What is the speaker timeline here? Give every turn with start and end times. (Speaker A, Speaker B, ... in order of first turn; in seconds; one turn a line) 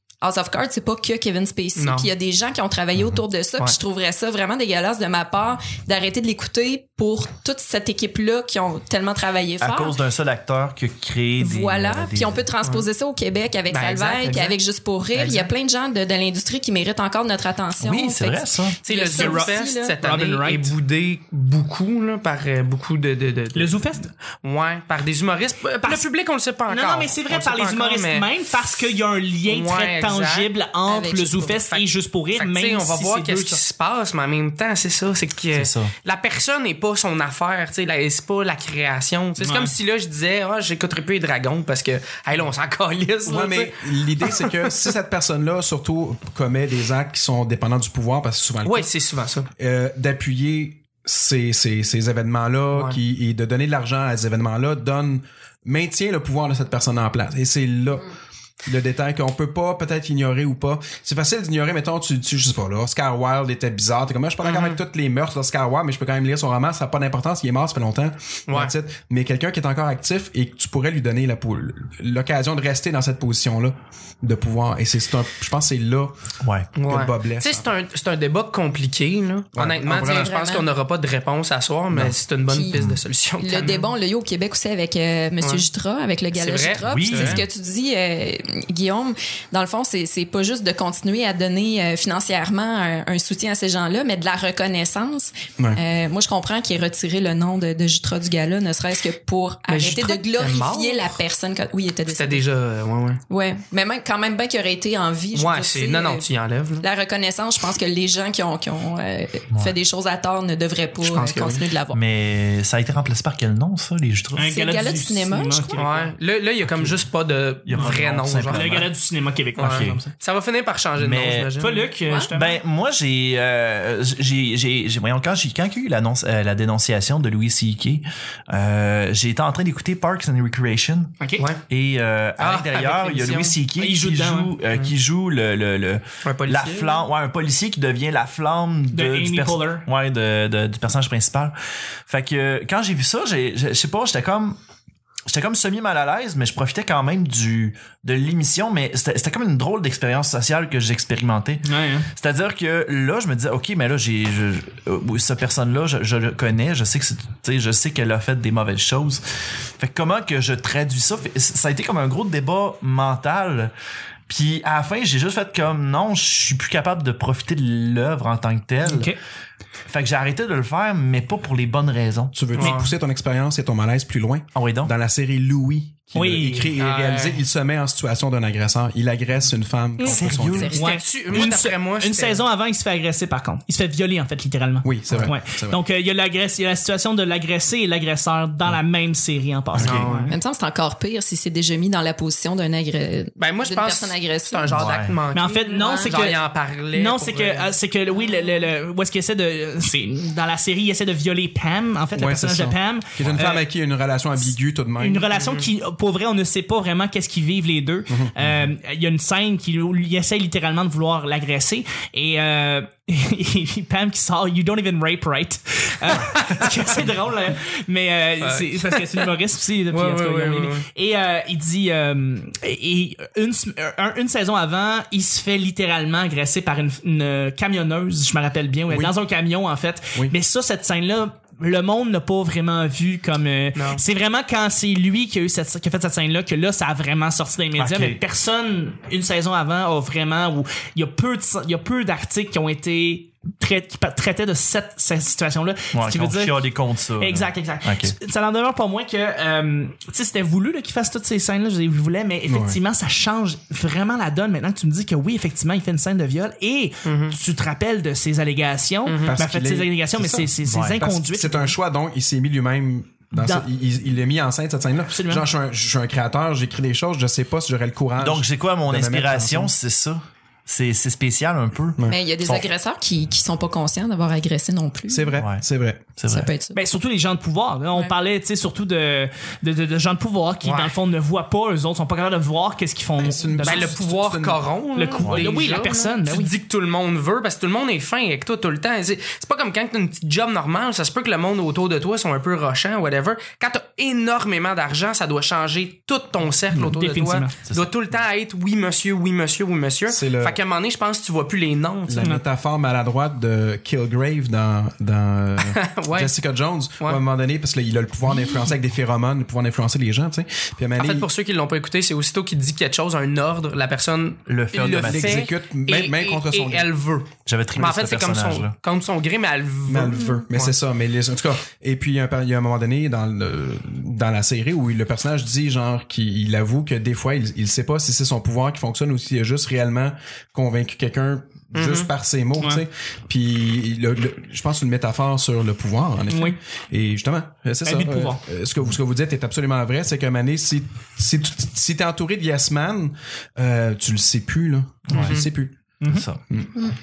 Speaker A: 0.2-10.0
Speaker B: 1.8-2.1
Speaker C: 3.0-3.2
Speaker D: 9.6-12.4
Speaker A: 11.4-19.9
Speaker B: 13.7-14.6
Speaker B: 15.2-15.5
Speaker D: 17.8-18.8
Speaker B: 18.9-28.3
Speaker E: 19.1-20.7
Speaker E: 23.5-24.1
Speaker E: 26.7-33.6
Speaker B: 29.5-30.5
Speaker A: 30.9-31.6
Speaker B: 31.5-44.8
Speaker D: 35.5-35.9
Speaker E: 39.4-39.7
Speaker C: 43.2-48.9
Speaker B: 48.6-49.5
Speaker C: 49.6-58.1
Speaker B: 52.7-53.0
Speaker C: 58.6-76.2
Speaker B: 64.4-64.8
Speaker B: 68.5-68.7
Speaker D: 76.4-76.7
Speaker B: 76.8-83.9
Speaker C: 76.9-77.7
Speaker C: 79.5-80.3
Speaker A: 80.0-80.7
Speaker A: 82.5-82.8
Speaker A: 83.4-102.4
Speaker B: 85.4-85.7
Speaker B: 86.3-87.5
Speaker D: 86.9-87.5
Speaker B: 99.7-101.2
Speaker B: 102.1-103.2
Speaker A: 103.3-106.3
Speaker B: 105.3-106.9
Speaker A: 106.8-112.0
Speaker D: 109.5-109.8
Speaker B: 111.0-111.7
Speaker D: 111.9-114.5
Speaker E: 114.3-116.1
Speaker A: 114.5-115.8
Speaker B: 115.8-118.7
Speaker D: 116.7-117.0
Speaker D: 117.7-118.9
Speaker E: 117.8-120.1
Speaker D: 119.6-120.0
Speaker B: 119.6-121.9
Speaker D: 121.0-121.5
Speaker E: 121.6-122.6
Speaker D: 122.3-131.2
Speaker E: 131.2-131.5
Speaker D: 131.7-141.6
Speaker B: 132.4-133.6
Speaker E: 133.8-134.5
Speaker B: 136.2-137.1
Speaker E: 138.9-139.9
Speaker D: 142.1-144.6
Speaker D: 145.3-159.2
Speaker E: 151.6-152.1
Speaker D: 159.8-163.7
Speaker D: 164.3-169.2
Speaker E: 168.8-169.2
Speaker D: 169.9-172.4
Speaker C: 172.3-180.7
Speaker E: 172.6-172.9
Speaker B: 172.6-172.9
Speaker D: 174.6-174.9
Speaker E: 176.2-176.7
Speaker B: 176.8-177.4
Speaker E: 180.0-190.3
Speaker D: 180.0-180.8
Speaker A: 180.5-180.9
Speaker B: 180.7-182.4
Speaker C: 184.8-185.8
Speaker C: 189.8-190.1
Speaker B: 189.8-190.2
Speaker A: 190.3-194.9
Speaker B: 193.4-197.7
Speaker D: 194.7-195.2
Speaker E: 195.3-196.4
Speaker A: 195.7-196.2
Speaker E: 196.9-203.7
Speaker C: 202.2-205.3
Speaker D: 203.2-203.5
Speaker E: 205.0-246.7
Speaker B: 205.3-205.7
Speaker C: 208.1-208.3
Speaker B: 218.4-219.3
Speaker B: 219.9-220.9
Speaker C: 228.9-229.2
Speaker B: 233.8-234.0
Speaker D: 237.8-238.2
Speaker D: 245.9-248.2
Speaker E: 247.2-261.7
Speaker C: 252.5-252.8
Speaker B: 257.1-257.4
Speaker B: 259.1-259.3
Speaker C: 259.2-269.7
Speaker D: 260.7-261.0
Speaker E: 263.3-263.7
Speaker E: 265.1-265.5
Speaker D: 268.2-272.7
Speaker A: 272.1-275.4
Speaker C: 275.1-276.1
Speaker D: 275.4-275.6
Speaker D: 276.2-276.5
Speaker A: 276.3-276.8
Speaker E: 276.7-284.0
Speaker B: 280.6-280.9
Speaker C: 283.2-284.7
Speaker B: 283.6-302.3
Speaker E: 284.9-286.5
Speaker D: 285.2-285.5
Speaker E: 296.8-297.6
Speaker D: 297.7-297.9
Speaker C: 300.1-300.6
Speaker C: 302.1-311.3
Speaker B: 305.6-306.3
Speaker B: 311.0-320.7
Speaker D: 314.5-315.5
Speaker C: 315.0-316.9
Speaker D: 317.4-318.8
Speaker C: 319.9-345.8
Speaker B: 331.8-332.1
Speaker E: 336.3-336.6
Speaker E: 337.9-338.4
Speaker D: 345.1-345.4
Speaker B: 345.1-345.5
Speaker E: 346.0-346.3
Speaker D: 346.1-346.4
Speaker C: 346.5-346.8